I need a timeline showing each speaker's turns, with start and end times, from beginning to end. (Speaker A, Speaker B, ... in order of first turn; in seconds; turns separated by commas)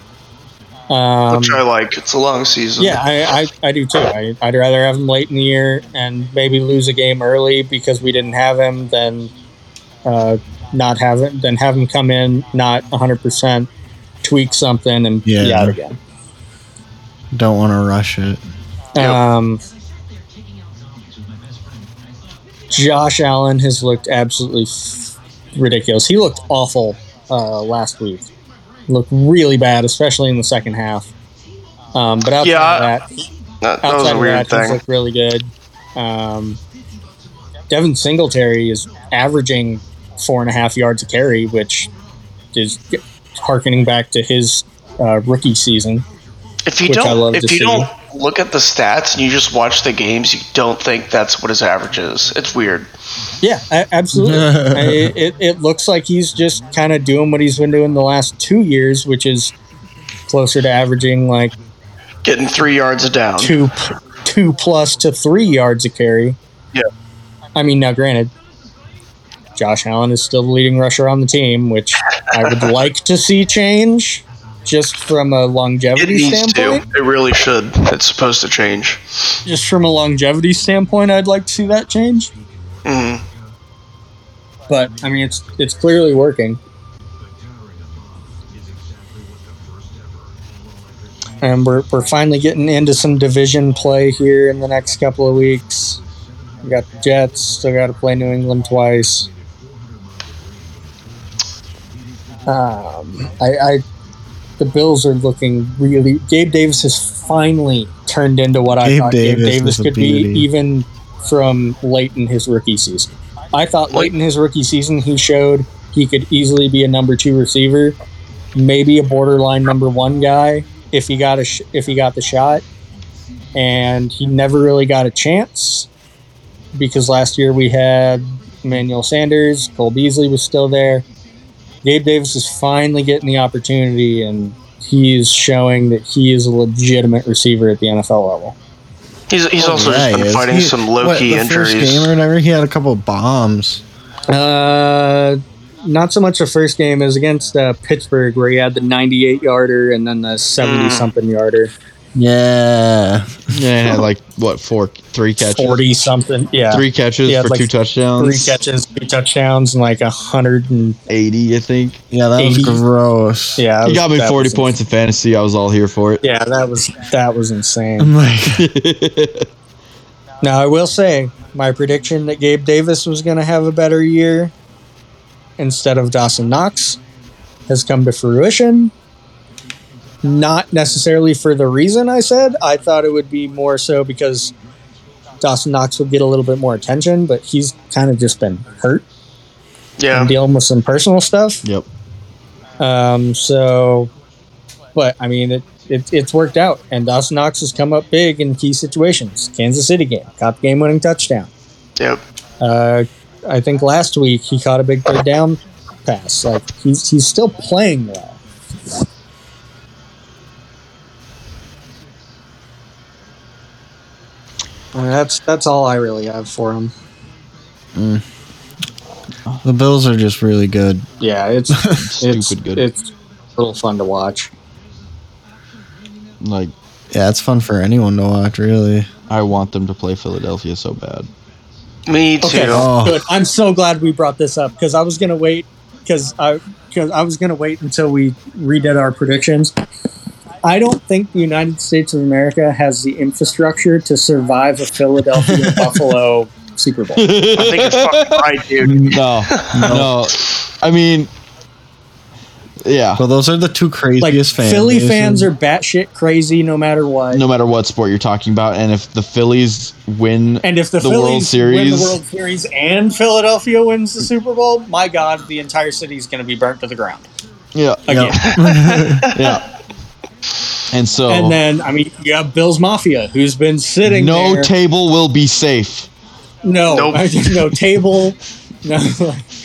Speaker A: 0.9-1.6, Speaker B: 1.3-3.0, Speaker A: 2.8-9.3, Speaker A: 10.0-13.7, Speaker A: 14.2-15.9, Speaker C: 15.2-15.8, Speaker C: 17.3-18.4, Speaker A: 18.9-19.6, Speaker A: 22.7-28.3, Speaker A: 28.9-31.1, Speaker A: 31.9-33.2, Speaker B: 32.4-32.9, Speaker B: 33.6-34.8, Speaker A: 33.8-36.6, Speaker A: 37.7-41.9, Speaker A: 42.5-46.0, Speaker B: 46.6-52.9, Speaker A: 46.9-47.9, Speaker A: 53.4-59.5, Speaker C: 54.1-55.1, Speaker A: 60.3-61.5, Speaker B: 62.2-63.5, Speaker A: 63.4-66.4, Speaker A: 67.5-68.3, Speaker A: 69.6-76.8, Speaker B: 72.3-72.8, Speaker B: 76.0-79.0, Speaker A: 79.5-82.3, Speaker B: 82.8-83.2, Speaker A: 84.7-86.6, Speaker A: 91.4-96.0, Speaker A: 96.6-99.3, Speaker A: 102.5-103.8, Speaker A: 104.6-118.0, Speaker C: 108.8-110.5, Speaker A: 118.5-122.6, Speaker A: 123.5-125.9, Speaker A: 126.7-131.0, Speaker A: 131.8-138.5, Speaker B: 139.3-142.1, Speaker C: 139.6-143.8, Speaker A: 144.3-151.7, Speaker B: 150.6-151.1, Speaker C: 152.1-153.5, Speaker D: 153.5-155.8, Speaker A: 155.4-161.0, Speaker D: 156.7-158.6, Speaker D: 161.1-162.0, Speaker C: 162.1-163.6, Speaker A: 162.4-162.8, Speaker A: 163.6-164.7, Speaker D: 163.8-166.2, Speaker A: 166.2-168.1, Speaker C: 168.0-168.7, Speaker D: 168.5-169.5, Speaker A: 170.4-174.5, Speaker A: 175.6-177.0, Speaker A: 177.7-178.9, Speaker A: 180.2-184.5, Speaker A: 185.4-189.0, Speaker B: 190.0-190.3, Speaker A: 190.1-191.6, Speaker A: 192.8-194.1, Speaker A: 194.9-201.5, Speaker A: 202.6-208.4, Speaker A: 214.9-216.9, Speaker C: 217.9-218.2, Speaker C: 219.6-221.1, Speaker A: 221.2-224.5, Speaker C: 221.7-222.0, Speaker D: 222.0-222.8, Speaker D: 226.4-226.7, Speaker C: 227.1-229.1, Speaker D: 229.3-231.3, Speaker B: 232.1-232.9, Speaker A: 232.4-239.7, Speaker C: 232.7-233.2, Speaker A: 240.6-247.3, Speaker C: 245.4-245.9, Speaker D: 247.2-251.3, Speaker B: 247.5-249.9, Speaker C: 249.7-250.1, Speaker D: 252.8-253.2, Speaker C: 253.2-255.5, Speaker A: 254.2-257.4, Speaker D: 257.3-262.2, Speaker A: 260.6-267.2, Speaker D: 267.7-268.4, Speaker A: 268.1-269.6, Speaker B: 268.3-269.1, Speaker C: 268.6-269.2, Speaker D: 269.3-269.6, Speaker D: 270.9-271.6, Speaker A: 271.3-274.7, Speaker D: 274.0-276.1, Speaker A: 276.6-279.4, Speaker B: 276.9-277.5